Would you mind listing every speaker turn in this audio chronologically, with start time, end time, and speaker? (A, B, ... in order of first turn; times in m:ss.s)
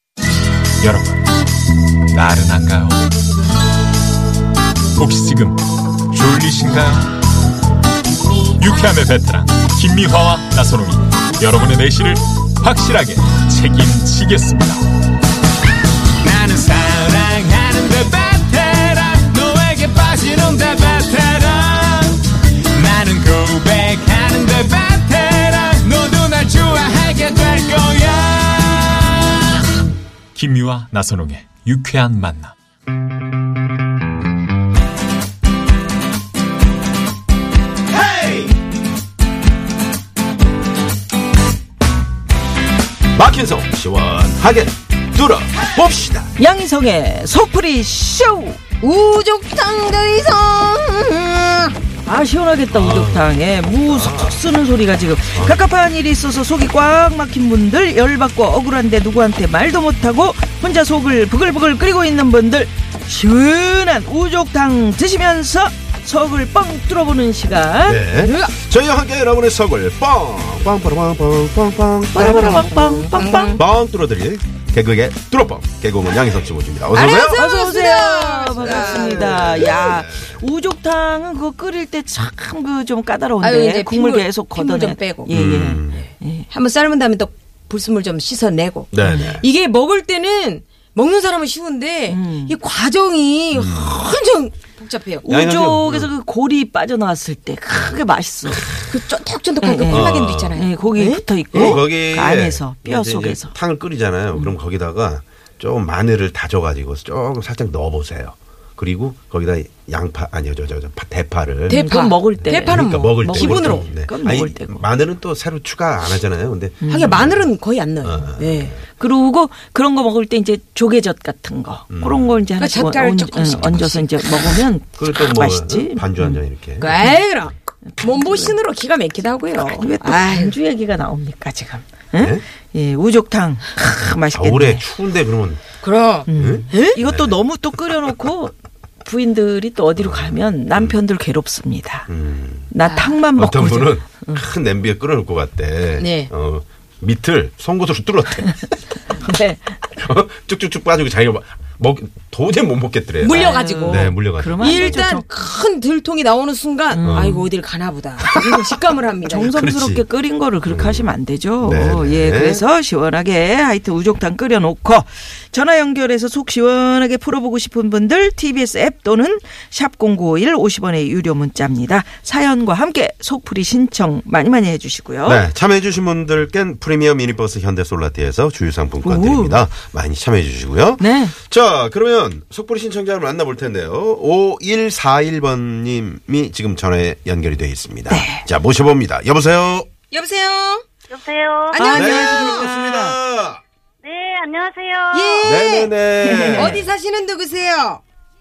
0:00.8-0:01.2 A
0:02.1-0:03.0 A
0:05.0-0:07.1 A
0:08.5-0:14.8 A
0:16.4-0:18.1 B
0:16.4-0:16.9 A
0:17.7-0:22.2 A
0:19.6-0:20.3 B
0:22.8-0:25.3 A
0:23.5-0:28.8 B
0:27.0-0:28.0 A
0:30.4-0:32.5 A
0:37.9-0:38.5 C
0:43.2-0:46.3 C
0:46.4-0:48.6 D
0:48.8-0:51.8 E
0:52.0-1:08.0 D
0:52.7-0:54.4 C
0:55.3-0:55.6 C
1:07.8-1:12.7 C
1:08.2-1:08.5 E
1:12.1-1:13.6 D
1:12.3-1:13.6 E
1:13.6-1:17.4 C
1:16.9-1:19.9 E
1:17.3-1:26.5 D
1:18.6-1:20.4 C
1:23.4-1:25.3 E
1:25.3-1:26.1 C
1:26.5-1:35.2 E
1:28.9-1:29.5 C
1:32.1-1:32.6 D
1:33.5-1:34.0 C
1:35.2-1:38.8 D
1:35.3-1:36.1 C
1:37.7-1:38.7 C
1:38.9-1:41.8 E
1:39.6-1:43.6 D
1:39.9-1:40.6 C
1:41.5-1:51.8 C
1:51.7-1:53.9 E
1:51.7-1:54.9 D
1:52.4-1:57.5 C
1:56.8-1:57.2 D
1:56.9-1:58.8 E
1:58.0-1:58.8 C
1:59.0-2:07.2 D
2:01.9-2:02.4 C
2:02.6-2:04.5 E
2:05.0-2:06.9 C
2:06.8-2:10.6 E
2:07.9-2:08.6 D
2:09.6-2:14.8 D
2:12.2-2:12.4 C
2:14.3-2:15.6 C
2:15.8-2:17.0 E
2:16.3-2:18.5 D
2:16.4-2:18.1 C
2:19.0-2:22.1 D
2:20.0-2:21.0 C
2:22.1-2:22.7 C
2:22.7-2:24.4 D
2:22.9-2:23.2 E
2:23.4-2:29.0 C
2:26.0-2:26.3 E
2:29.2-2:29.8 D
2:29.9-2:35.1 C
2:33.2-2:39.5 E
2:33.3-2:35.2 D
2:36.9-2:37.5 D
2:37.0-2:37.4 C
2:39.3-2:55.4 D
2:39.5-2:40.0 C
2:40.7-2:41.1 C
2:41.6-2:42.6 C
2:55.3-3:09.9 C
2:59.0-2:59.6 D
3:01.0-3:01.4 D
3:08.1-3:08.4 D
3:10.1-3:10.8 E
3:11.1-3:11.8 F
3:11.8-3:12.7 E
3:11.8-3:13.2 D
3:11.9-3:13.6 C
3:14.0-3:15.5 F
3:15.1-3:15.9 E
3:15.4-3:16.8 C
3:16.2-3:16.8 D
3:16.5-3:18.0 E